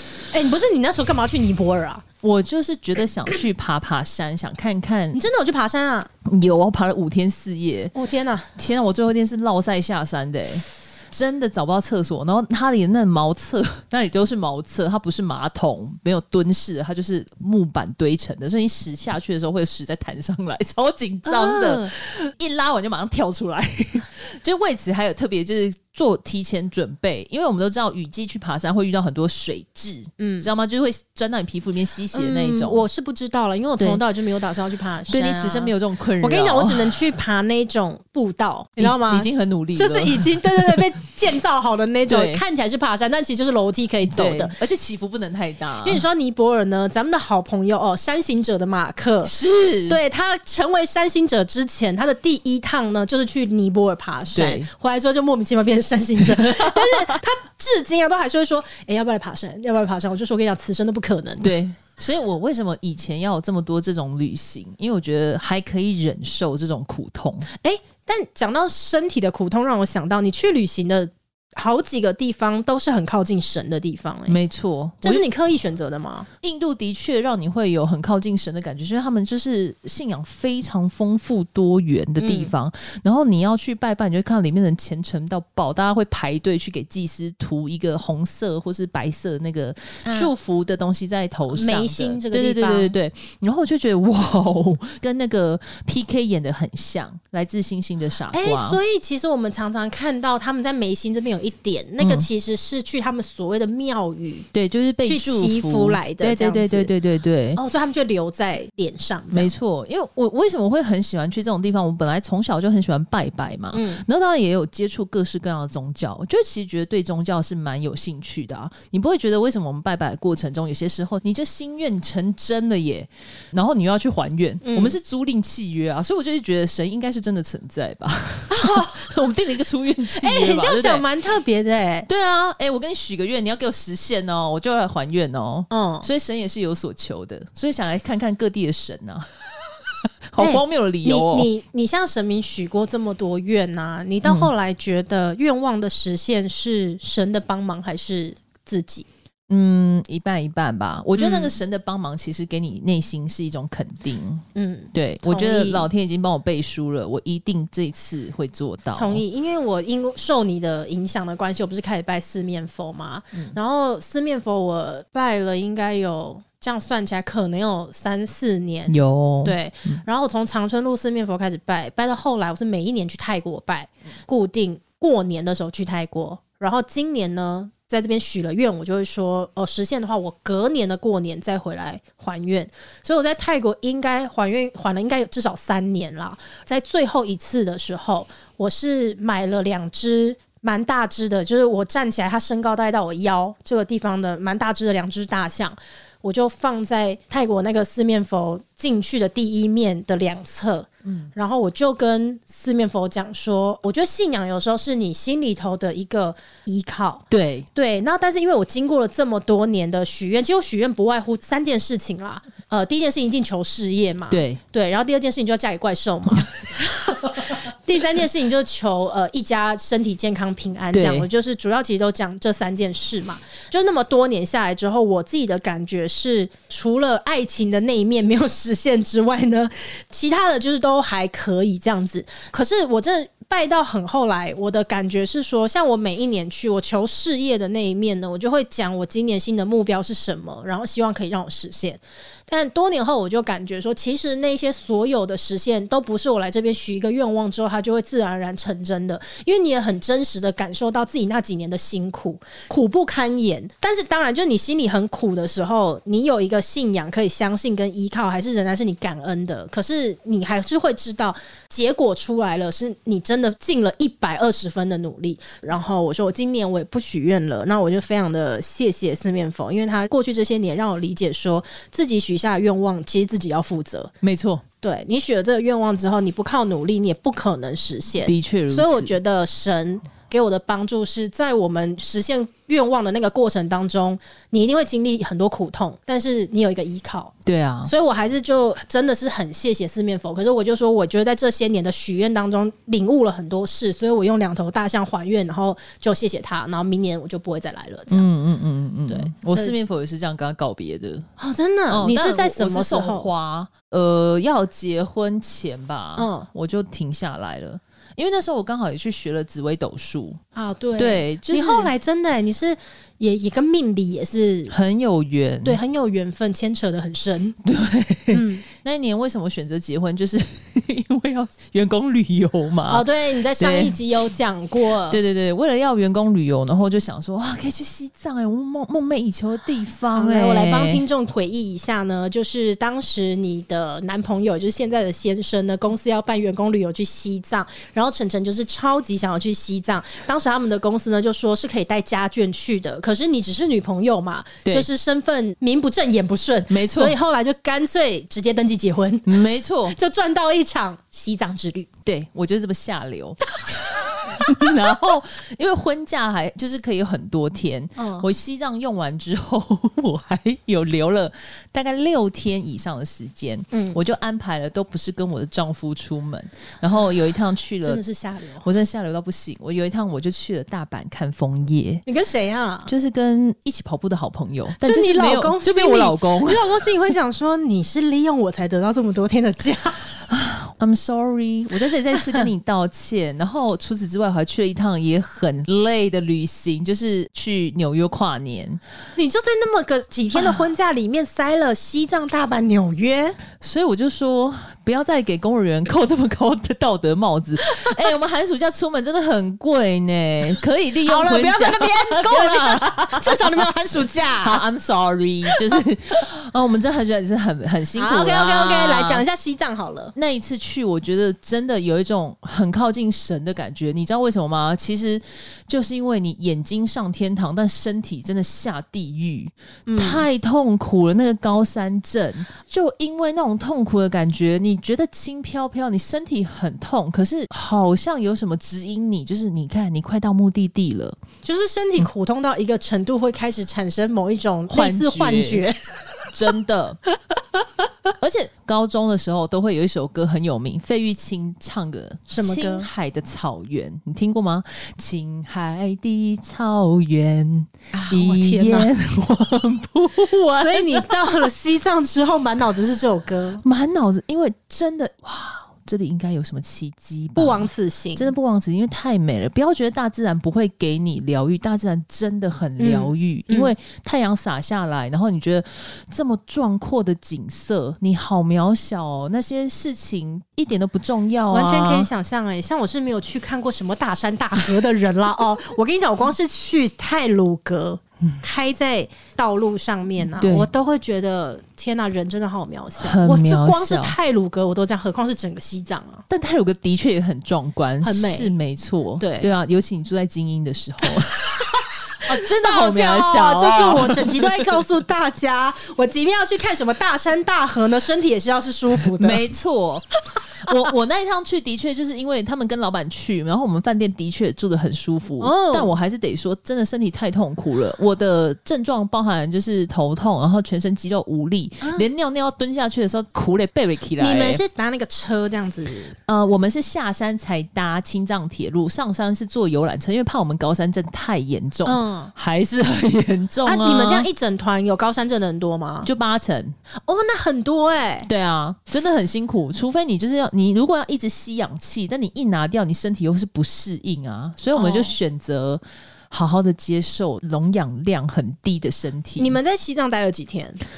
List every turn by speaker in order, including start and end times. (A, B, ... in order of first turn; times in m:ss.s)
0:00.3-0:02.0 A
0:02.2-0:05.2 B
0:05.1-0:06.1 A
0:06.2-0:07.9 B
0:07.9-0:08.5 A
0:08.6-0:32.8 B
0:21.2-0:21.9 A
0:30.2-0:30.5 A
0:32.1-0:44.6 A
0:35.1-0:37.0 B
0:38.8-0:40.8 B
0:42.1-0:42.4 B
0:44.1-0:46.0 B
0:45.8-0:49.4 A
0:49.2-0:50.0 B
0:49.9-1:01.5 A
0:54.3-0:54.7 B
0:56.2-0:57.2 B
1:01.4-1:07.5 B
1:07.5-1:14.4 A
1:14.3-1:15.2 B
1:15.0-1:16.3 A
1:16.4-1:38.8 B
1:22.2-1:22.5 A
1:30.0-1:30.3 A
1:31.5-1:32.9 A
1:38.3-1:44.5 A
1:42.0-1:42.3 B
1:44.5-1:47.6 B
1:45.0-1:46.9 A
1:47.6-1:49.5 A
1:49.3-2:11.0 B
1:53.7-1:54.0 A
2:04.6-2:04.9 A
2:08.5-2:08.9 A
2:10.1-2:12.1 A
2:12.1-2:19.3 B
2:15.7-2:16.1 A
2:20.3-2:21.5 B
2:20.4-2:29.1 A
2:24.2-2:24.5 B
2:29.5-2:39.2 B
2:31.1-2:31.6 A
2:34.5-2:35.9 A
2:39.0-4:34.1 A
2:48.9-2:50.0 B
3:21.0-3:21.3 B
3:27.3-3:27.7 B
3:34.3-3:34.6 B
3:40.9-3:41.3 B
4:34.2-4:34.6 B
4:34.8-4:47.3 A
4:38.2-4:39.1 B
4:47.4-4:47.9 B
4:47.8-4:58.3 A
4:58.1-5:01.3 B
4:59.1-4:59.8 A
5:01.4-5:03.3 A
5:01.9-5:10.4 B
5:06.2-5:06.5 A
5:10.5-5:14.7 A
5:11.0-5:11.9 B
5:14.7-5:15.8 B
5:15.6-5:17.6 A
5:17.6-5:24.0 B
5:18.3-5:18.6 A
5:22.9-5:25.2 A
5:25.1-5:31.0 B
5:30.1-5:49.4 A
5:46.7-5:47.2 B
5:49.2-5:50.0 B
5:49.9-5:51.9 A
5:52.0-5:53.4 B
5:53.7-5:54.7 A
5:54.3-6:08.0 B
5:58.0-5:58.3 A
6:03.7-6:04.0 A
6:07.8-6:08.7 A
6:08.6-6:12.0 B
6:12.0-6:12.9 A
6:12.9-6:16.6 B
6:14.8-6:20.1 A
6:20.3-6:28.8 B
6:29.2-6:33.4 A
6:33.6-6:43.6 B
6:41.0-6:44.6 A
6:44.4-6:49.2 B
6:47.9-6:50.1 A
6:50.2-7:11.2 B
6:59.9-7:00.2 A
7:11.4-7:16.3 A
7:14.7-7:15.6 B
7:16.3-7:17.0 B
7:18.2-7:31.1 B
7:22.3-7:22.9 A
7:27.9-7:28.9 A
7:30.5-7:33.6 A
7:33.6-7:52.1 B
7:37.4-7:38.3 A
7:42.8-7:43.7 A
7:51.5-8:06.2 A
8:00.4-8:00.7 B
8:03.0-8:04.2 B
8:06.3-8:11.4 B
8:08.0-8:08.5 A
8:09.2-8:09.5 A
8:12.2-8:19.4 A
8:12.3-8:14.7 B
8:19.1-8:20.1 B
8:20.6-8:34.6 B
8:25.4-8:25.9 A
8:31.8-8:32.1 A
8:34.2-8:36.1 A
8:36.3-8:44.3 B
8:41.8-8:42.3 A
8:43.6-8:46.1 A
8:46.0-8:46.8 B
8:47.0-8:48.3 A
8:48.3-8:59.6 B
8:54.7-8:55.2 A
8:59.4-9:00.8 A